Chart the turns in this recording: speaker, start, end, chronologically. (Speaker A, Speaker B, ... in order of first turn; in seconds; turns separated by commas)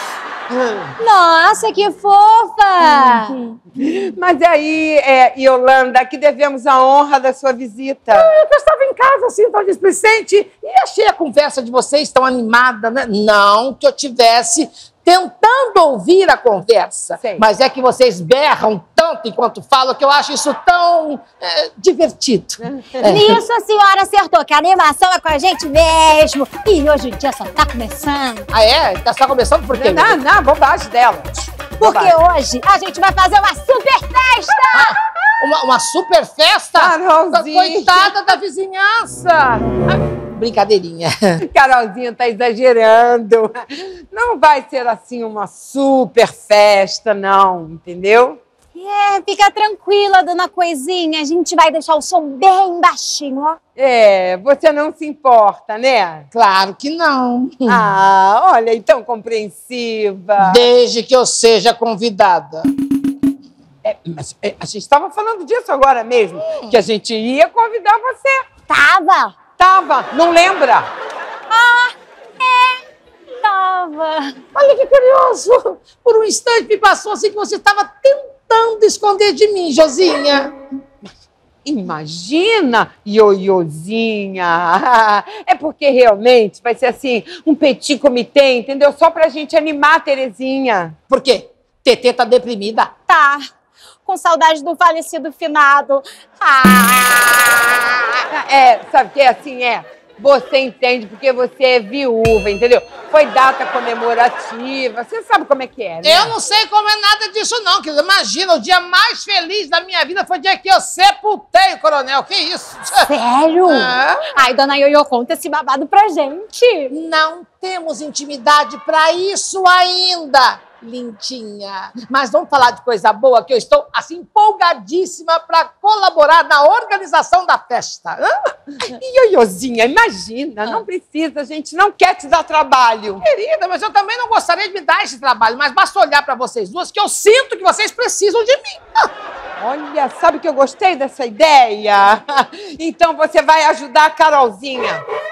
Speaker A: 1.0-3.4, Speaker B: 2.9-3.6, Speaker C: 3.8-8.3, Speaker B: 8.1-23.4, Speaker C: 17.2-17.4, Speaker C: 22.6-23.2, Speaker A: 23.0-28.5, Speaker B: 28.5-30.2, Speaker C: 29.7-32.1, Speaker A: 31.8-35.0, Speaker B: 34.7-41.4, Speaker C: 36.8-38.1, Speaker C: 41.4-43.6, Speaker C: 44.1-48.4, Speaker A: 48.8-53.6, Speaker C: 53.8-56.3, Speaker B: 56.3-57.8, Speaker C: 57.7-60.7, Speaker B: 60.4-62.7, Speaker C: 63.9-68.5, Speaker B: 66.5-66.7, Speaker A: 68.7-69.4, Speaker C: 69.6-70.9, Speaker A: 71.5-72.8, Speaker A: 73.4-74.4, Speaker B: 74.5-80.5, Speaker C: 81.7-91.0, Speaker B: 91.1-92.9, Speaker A: 93.1-93.4, Speaker A: 94.0-98.2, Speaker C: 98.3-106.3, Speaker B: 106.0-113.1, Speaker A: 112.9-117.0, Speaker B: 113.7-114.3, Speaker B: 116.9-128.3, Speaker C: 128.8-133.2, Speaker B: 133.2-138.8, Speaker C: 139.6-145.0